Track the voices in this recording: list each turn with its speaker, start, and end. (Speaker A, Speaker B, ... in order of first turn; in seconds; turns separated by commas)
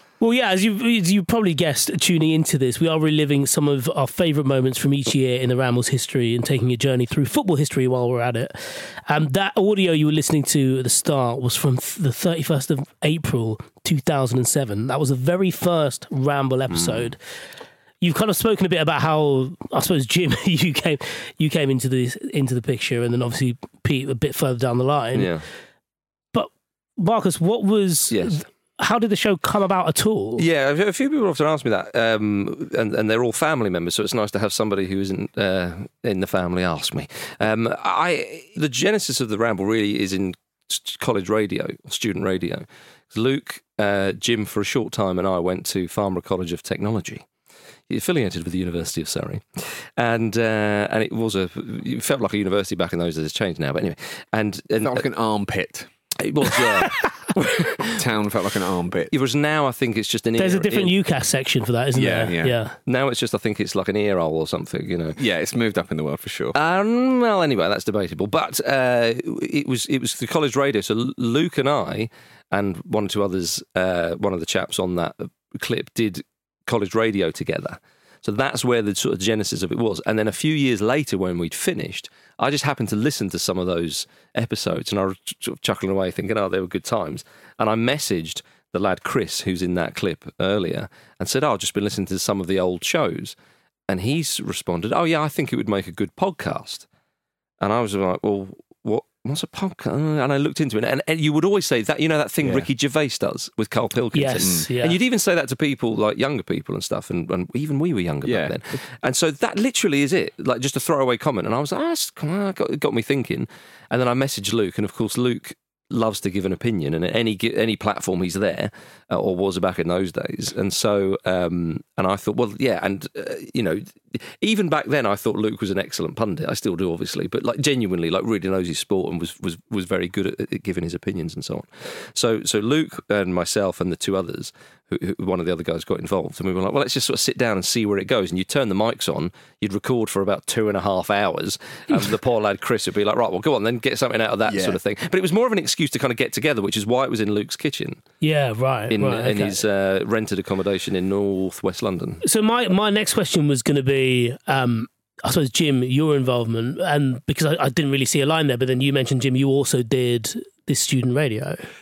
Speaker A: 0.2-17.2, Speaker B: 16.7-17.1, Speaker A: 18.0-25.3, Speaker B: 25.1-25.4, Speaker A: 26.3-30.5, Speaker B: 28.1-28.4, Speaker B: 30.4-47.2, Speaker B: 47.9-55.0, Speaker C: 54.8-55.9, Speaker B: 56.2-58.0, Speaker C: 57.9-59.1, Speaker B: 59.1-61.0, Speaker A: 60.4-62.8, Speaker C: 61.9-62.5, Speaker B: 62.9-65.2, Speaker C: 65.2-66.6, Speaker B: 66.5-93.3, Speaker B: 93.9-96.9, Speaker B: 97.6-148.0, Speaker A: 104.2-105.0, Speaker C: 108.2-108.6, Speaker C: 144.5-144.8, Speaker A: 148.2-149.6, Speaker B: 148.9-152.2, Speaker A: 152.2-161.6